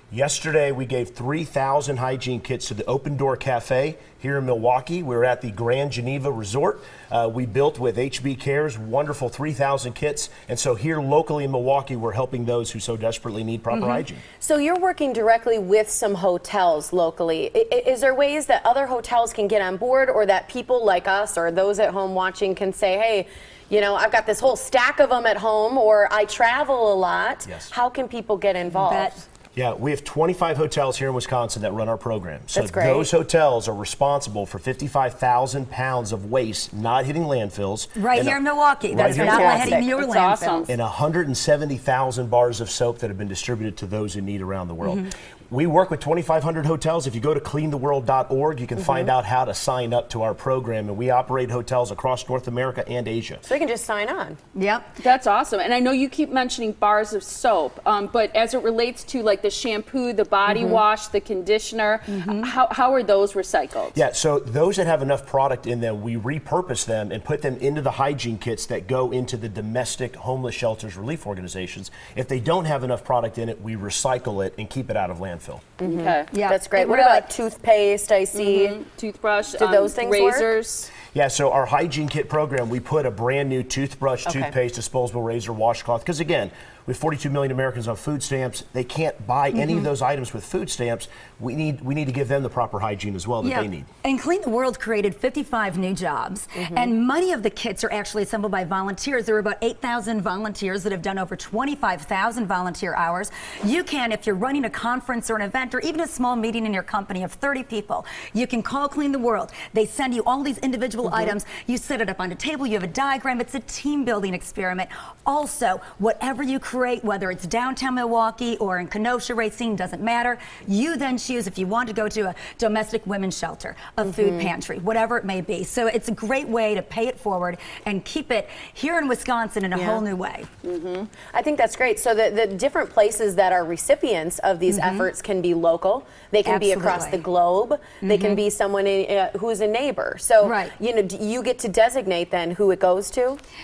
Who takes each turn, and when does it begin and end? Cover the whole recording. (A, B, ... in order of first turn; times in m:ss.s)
0:00.1-0:14.2 A
0:13.7-0:14.0 B
0:14.4-0:29.1 C
0:28.8-0:29.2 B
0:29.6-0:39.8 A
0:32.5-0:33.1 C
0:38.0-0:40.7 B
0:38.9-0:39.9 C
0:39.8-0:40.7 D
0:40.7-0:53.4 A
0:44.8-0:45.1 B
0:48.8-0:49.1 C
0:53.5-0:54.4 C
0:54.6-0:54.9 B
0:55.0-1:04.0 D
1:00.5-1:00.8 C
1:02.1-1:02.5 B
1:03.9-1:15.7 A
1:15.8-1:18.8 C
1:15.8-1:16.3 D
1:16.3-1:17.3 B
1:18.3-1:20.9 D
1:19.6-1:20.5 C
1:21.1-1:33.9 A
1:24.3-1:24.5 C
1:29.5-1:29.9 B
1:33.4-2:10.5 B
1:36.6-1:36.9 C
1:51.1-1:51.3 C
2:04.0-2:04.5 C
2:09.8-2:10.0 C
2:10.6-2:11.1 D
2:11.3-2:23.4 C
2:14.7-2:15.1 B
2:16.4-2:17.2 B
2:18.0-2:18.4 B
2:20.4-2:20.7 B